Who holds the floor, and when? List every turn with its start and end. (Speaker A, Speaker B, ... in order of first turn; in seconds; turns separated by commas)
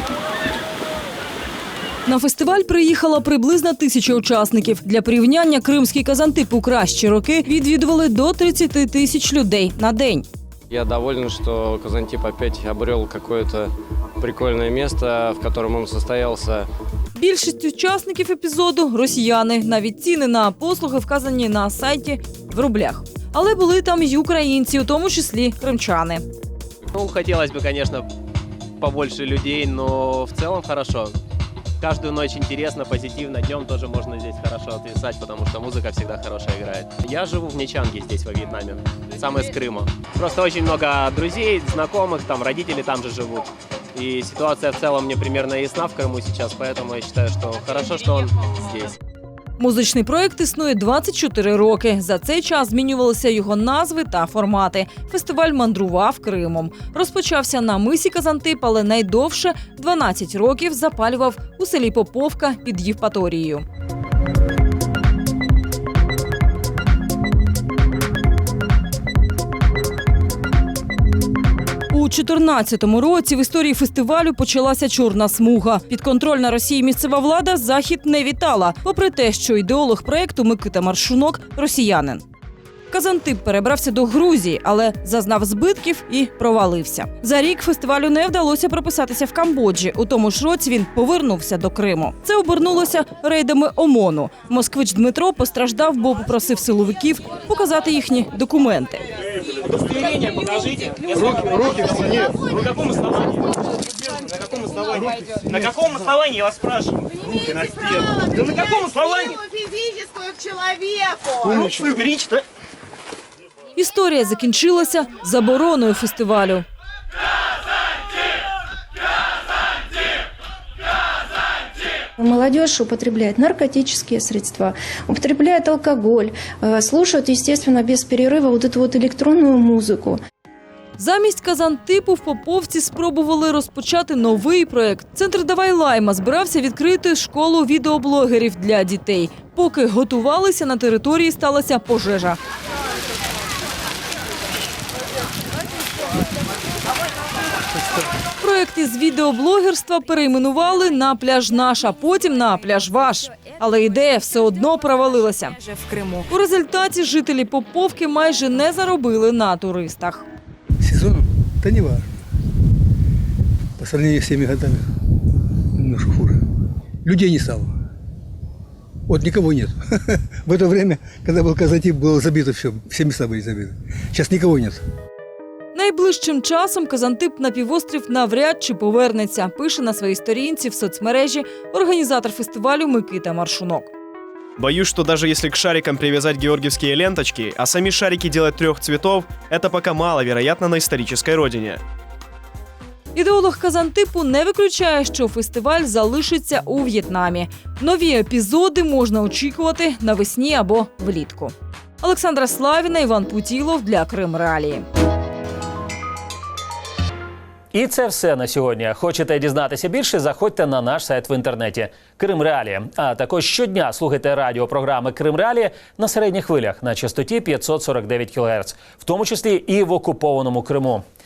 Speaker A: 2.0-10.2, Speaker B: 10.7-16.7, Speaker A: 17.1-26.2, Speaker C: 26.9-28.1, Speaker C: 28.8-31.1, Speaker C: 31.8-48.9, Speaker A: 49.6-63.6, Speaker A: 71.9-82.2, Speaker A: 82.9-99.0, Speaker D: 99.6-103.4, Speaker D: 104.1-109.4, Speaker D: 111.4-112.4, Speaker A: 113.8-116.6, Speaker E: 122.2-130.2, Speaker A: 131.0-142.4, Speaker A: 148.4-155.7, Speaker A: 156.2-160.3, Speaker F: 160.8-162.1, Speaker F: 163.8-164.9, Speaker F: 165.7-166.4, Speaker F: 167.0-167.7, Speaker F: 169.1-174.8, Speaker A: 175.7-183.9, Speaker G: 184.6-191.8, Speaker A: 193.1-204.8, Speaker H: 207.7-221.0